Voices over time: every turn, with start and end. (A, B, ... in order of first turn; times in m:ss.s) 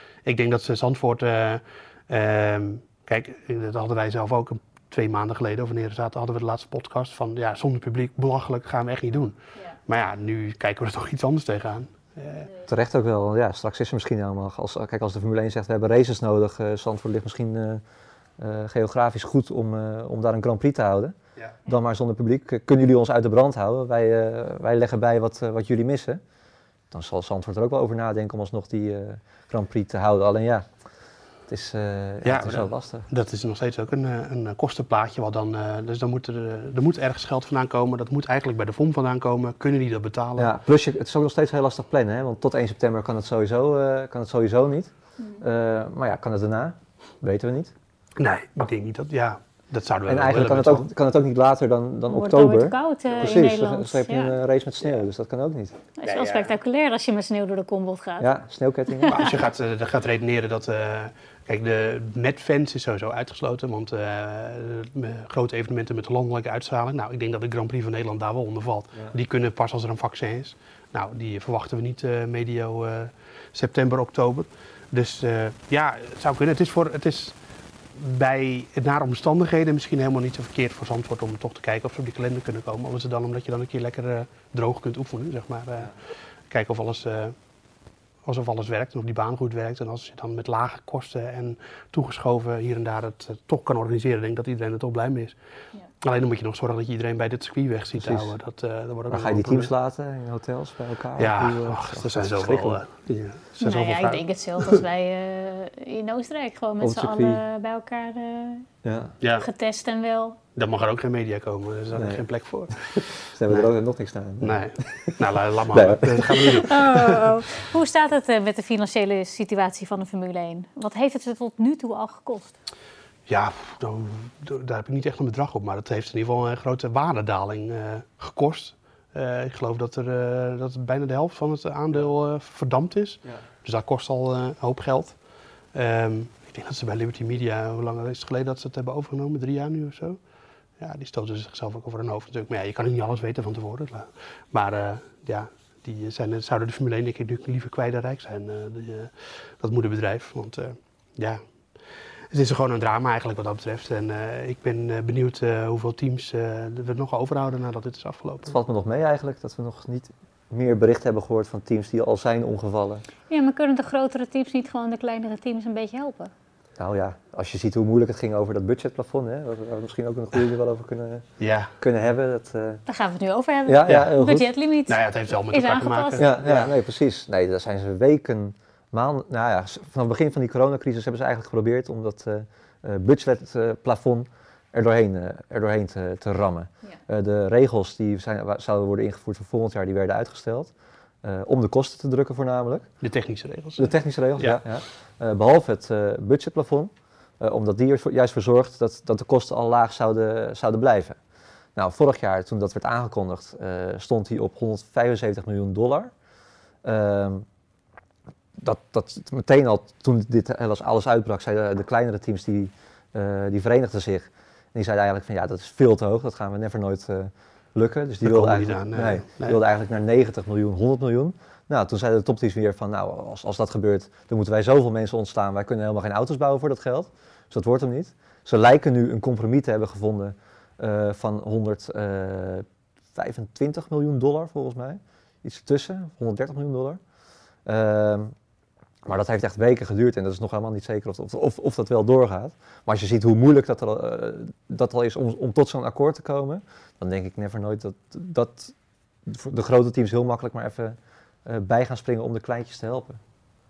0:00.2-0:12.5 A
0:12.6-0:17.8 B
0:18.4-0:21.1 B
0:21.6-0:26.2 B
0:26.9-0:30.7 B
0:31.5-0:33.1 B
0:32.2-0:40.5 A
0:40.4-0:47.7 B
0:48.2-0:50.9 A
0:50.1-0:55.7 B
0:52.1-0:54.3 C
0:56.0-0:58.3 C
0:56.0-0:56.5 A
0:58.2-0:59.3 B
0:59.1-1:17.3 A
1:17.9-1:26.0 A
1:26.5-1:27.3 A
1:28.2-1:35.3 A
1:36.0-1:39.7 A
1:38.0-1:38.3 B
1:39.1-1:42.8 B
1:41.2-1:44.8 A
1:43.6-1:48.6 C
1:46.8-1:47.4 B
1:48.8-1:49.1 B
1:49.2-1:49.5 A
1:49.4-1:50.4 C
1:50.6-1:53.7 A
1:51.9-1:52.2 B
1:53.3-1:56.6 B
1:54.4-1:57.2 A
1:56.6-2:02.5 C
2:03.3-2:15.2 A
2:15.7-2:20.2 A
2:20.8-2:31.4 A
2:32.3-2:38.6 A
2:38.4-2:43.0 B
2:43.3-2:46.3 C
2:46.8-2:51.2 B
2:51.4-2:51.7 A
2:51.8-2:52.8 B
2:52.9-2:56.2 C
2:53.6-2:54.5 B
2:53.9-2:54.1 A
2:54.9-2:56.7 A
2:56.2-3:10.7 B
3:11.2-3:12.9 B
3:13.0-3:14.6 A
3:13.8-3:21.2 B
3:21.8-3:26.1 B
3:26.8-3:27.4 B
3:28.6-3:57.0 B
3:38.2-3:39.6 A
3:57.6-3:58.3 B
3:59.0-4:08.7 B
4:09.2-4:13.2 B